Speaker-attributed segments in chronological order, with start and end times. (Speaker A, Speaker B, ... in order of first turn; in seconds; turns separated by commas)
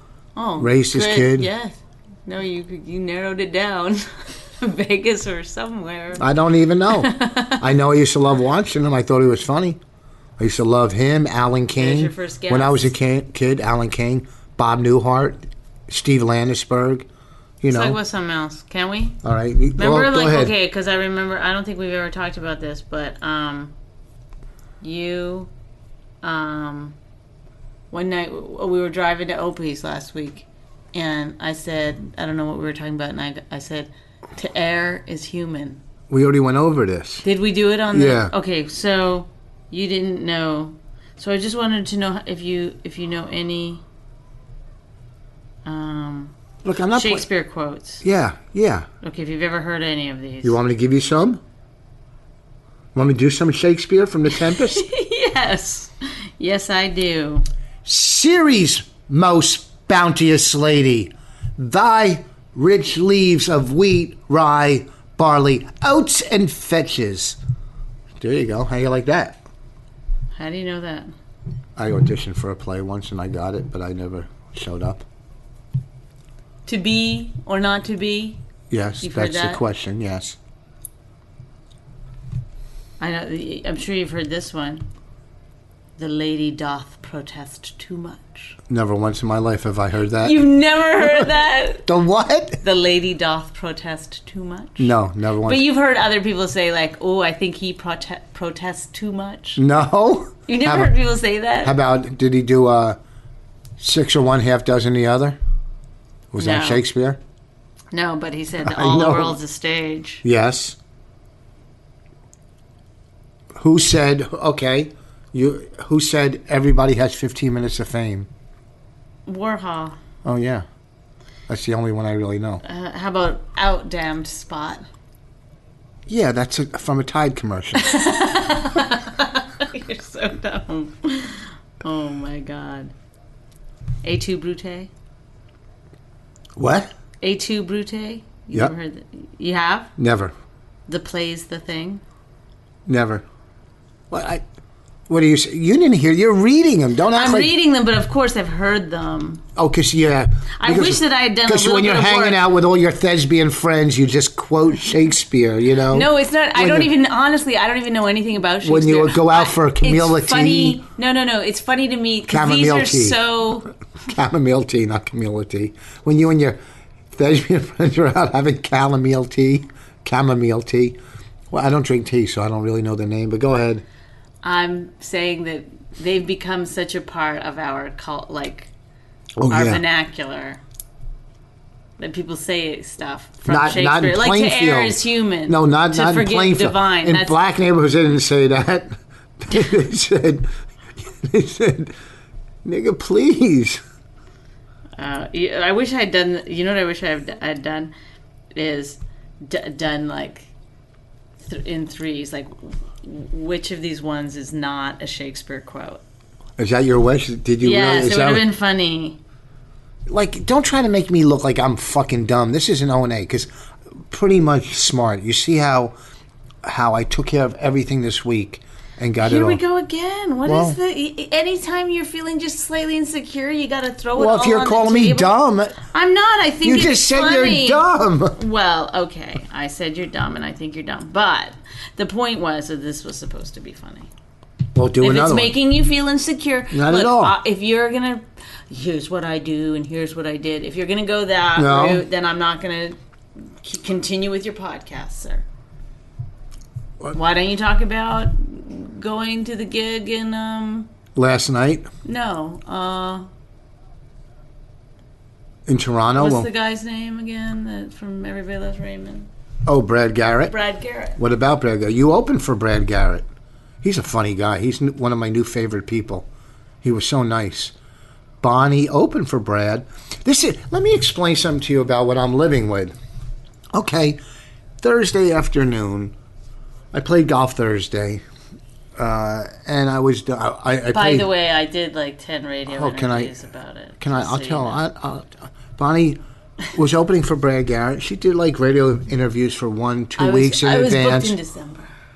Speaker A: 0.3-6.2, Speaker B: 0.6-1.5, Speaker B: 6.2-9.8, Speaker A: 6.9-7.6, Speaker B: 10.4-17.1, Speaker A: 11.7-12.9, Speaker B: 17.6-18.0, Speaker A: 17.7-19.1, Speaker B: 19.2-20.5, Speaker A: 19.8-23.7, Speaker A: 24.8-25.5, Speaker A: 26.2-26.9, Speaker A: 27.9-35.8, Speaker B: 36.1-37.2, Speaker A: 37.2-43.8, Speaker B: 37.9-38.3, Speaker A: 45.6-46.3, Speaker B: 46.6-47.3, Speaker A: 46.9-48.0, Speaker B: 48.0-48.9, Speaker A: 49.0-50.6, Speaker B: 50.4-51.4, Speaker B: 52.9-54.8, Speaker A: 54.4-57.5, Speaker B: 57.8-67.4, Speaker B: 68.2-69.4, Speaker A: 70.3-71.1, Speaker B: 71.8-75.0, Speaker A: 76.7-78.4, Speaker B: 78.7-80.4, Speaker A: 79.0-79.6, Speaker A: 83.0-84.8, Speaker A: 86.0-88.5, Speaker B: 88.7-90.4, Speaker A: 90.2-91.9, Speaker B: 91.0-91.3, Speaker B: 91.8-92.6, Speaker A: 92.6-94.9, Speaker B: 94.8-95.6, Speaker A: 95.4-99.6, Speaker B: 99.6-100.9, Speaker A: 100.5-101.7, Speaker B: 101.6-103.0, Speaker B: 103.8-105.4, Speaker B: 106.3-107.2, Speaker A: 106.4-106.8, Speaker A: 107.9-110.2, Speaker B: 108.6-109.4, Speaker B: 110.2-110.8, Speaker B: 113.5-118.3, Speaker A: 119.2-120.0, Speaker B: 120.2-120.6, Speaker B: 121.5-122.6, Speaker A: 122.6-124.8, Speaker B: 126.1-127.9, Speaker A: 127.8-132.9, Speaker A: 134.0-134.9, Speaker B: 136.6-136.9, Speaker A: 137.2-139.9, Speaker B: 140.0-140.3, Speaker A: 140.9-142.0, Speaker B: 142.8-143.2, Speaker B: 144.1-144.4, Speaker B: 145.1-147.5, Speaker A: 147.1-149.4, Speaker B: 149.6-156.9, Speaker A: 150.6-152.4, Speaker A: 155.9-163.7, Speaker B: 158.6-160.8, Speaker B: 162.3-163.2, Speaker B: 164.1-166.6, Speaker B: 167.1-171.0, Speaker B: 171.5-173.8, Speaker A: 174.4-178.7, Speaker B: 179.4-179.8, Speaker A: 179.5-180.6, Speaker A: 182.0-187.4, Speaker B: 183.4-191.9, Speaker B: 192.6-193.8, Speaker A: 195.0-197.9, Speaker A: 198.5-200.5, Speaker A: 201.4-206.0, Speaker B: 206.6-208.4, Speaker A: 207.6-209.2, Speaker B: 210.1-213.5, Speaker B: 214.1-215.9, Speaker B: 216.6-219.6, Speaker A: 219.2-234.1, Speaker B: 220.4-220.8, Speaker B: 224.2-225.8, Speaker B: 226.6-228.4, Speaker B: 234.7-235.5, Speaker A: 235.0-243.0, Speaker B: 236.7-237.4, Speaker B: 241.6-242.0, Speaker A: 243.6-245.4, Speaker A: 247.1-250.9, Speaker B: 251.1-251.9, Speaker A: 252.0-253.3, Speaker B: 255.7-256.5, Speaker A: 256.1-259.3, Speaker B: 259.6-260.5, Speaker A: 260.5-261.2, Speaker B: 261.2-263.2, Speaker B: 263.8-266.3, Speaker B: 266.8-267.7, Speaker B: 268.4-272.9, Speaker B: 273.7-274.2, Speaker B: 274.8-276.1, Speaker B: 276.9-278.2, Speaker B: 279.0-281.3, Speaker A: 280.9-284.8, Speaker B: 282.7-283.3, Speaker B: 284.0-286.2, Speaker B: 286.7-291.4, Speaker A: 290.2-291.9